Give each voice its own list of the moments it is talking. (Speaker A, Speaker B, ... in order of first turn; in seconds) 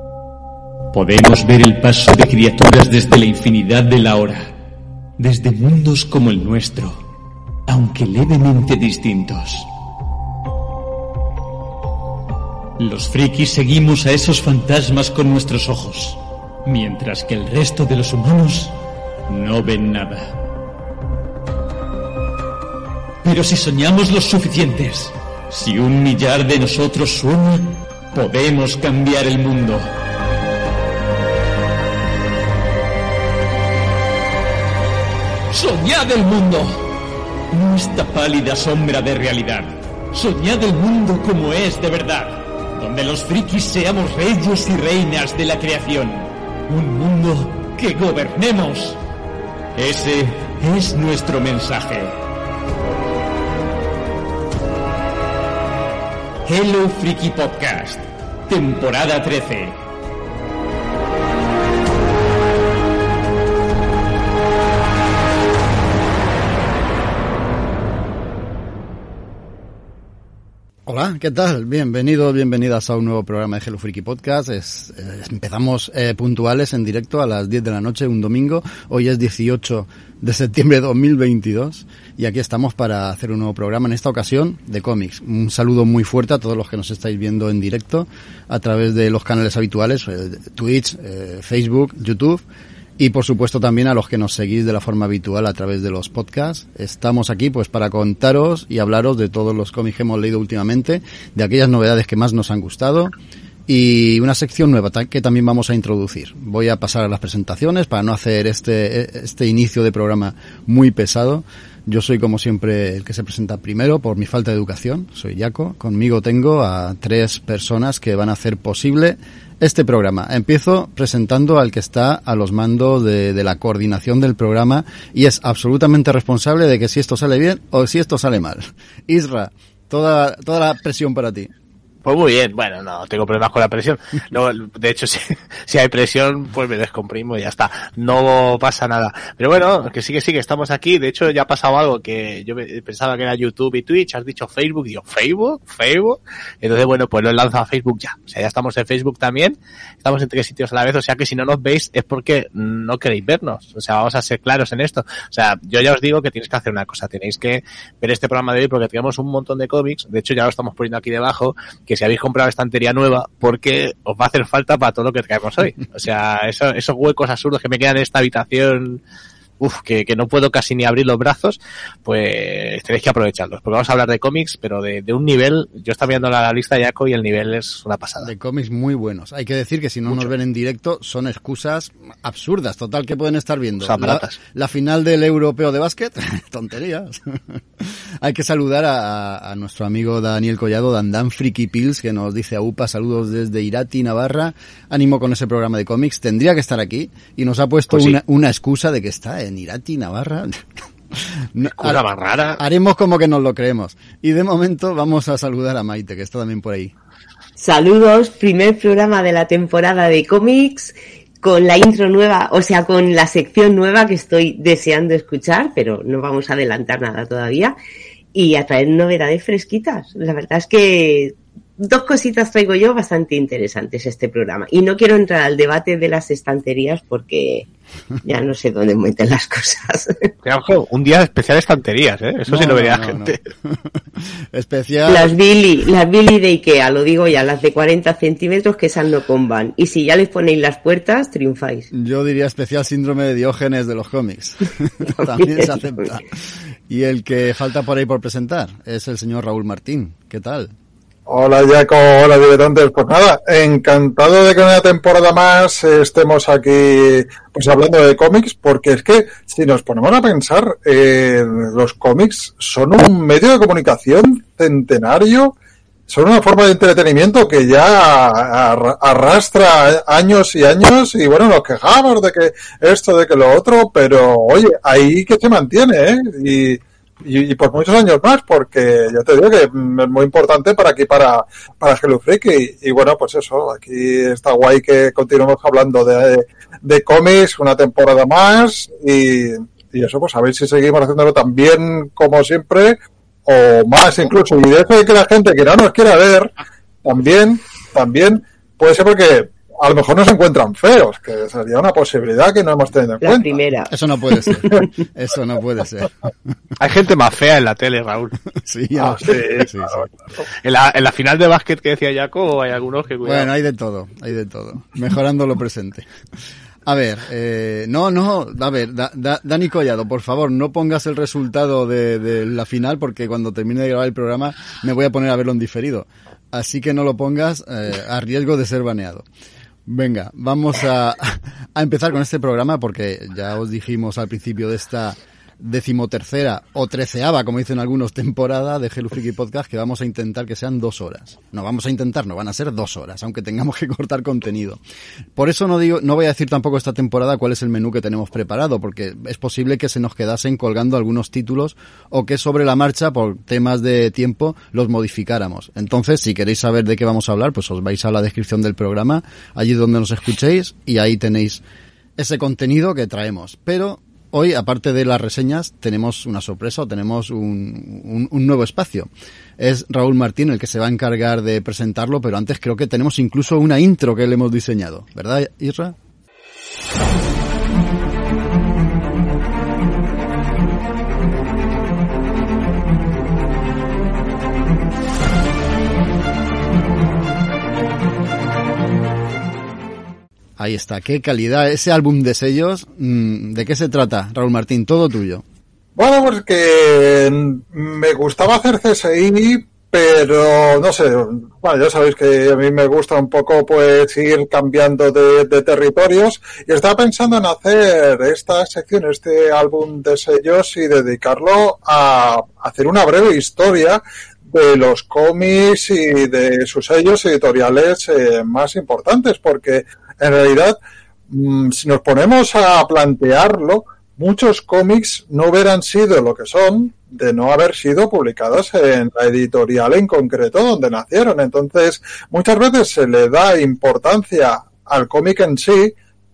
Speaker A: 0.9-4.5, 5.2-7.0, 7.7-9.7, 12.8-18.8, 19.3-20.4, 23.2-29.9, 35.5-36.9, 37.5-49.0, 49.8-52.1, 56.5-59.8
Speaker B: 70.9-92.4, 93.0-103.1, 103.7-131.5, 178.2-200.6, 201.1-202.0, 202.6-206.9, 232.5-235.3, 241.9-250.7, 303.9-306.1, 308.5-310.1, 313.2-316.1, 316.9-329.2, 329.9-344.8, 345.4-361.6, 362.2-375.9, 390.6-395.4
Speaker C: 132.1-169.0, 169.6-178.3, 183.8-184.4, 197.9-198.2, 201.8-202.6, 230.4-233.4, 306.8-308.4, 309.2-309.7, 310.6-313.5
Speaker D: 207.6-217.8, 218.3-227.7, 228.2-230.3, 235.1-241.9, 245.1-246.0, 303.2-303.9
Speaker E: 251.3-265.5, 266.1-296.5, 297.1-303.6, 396.0-420.8, 421.3-435.9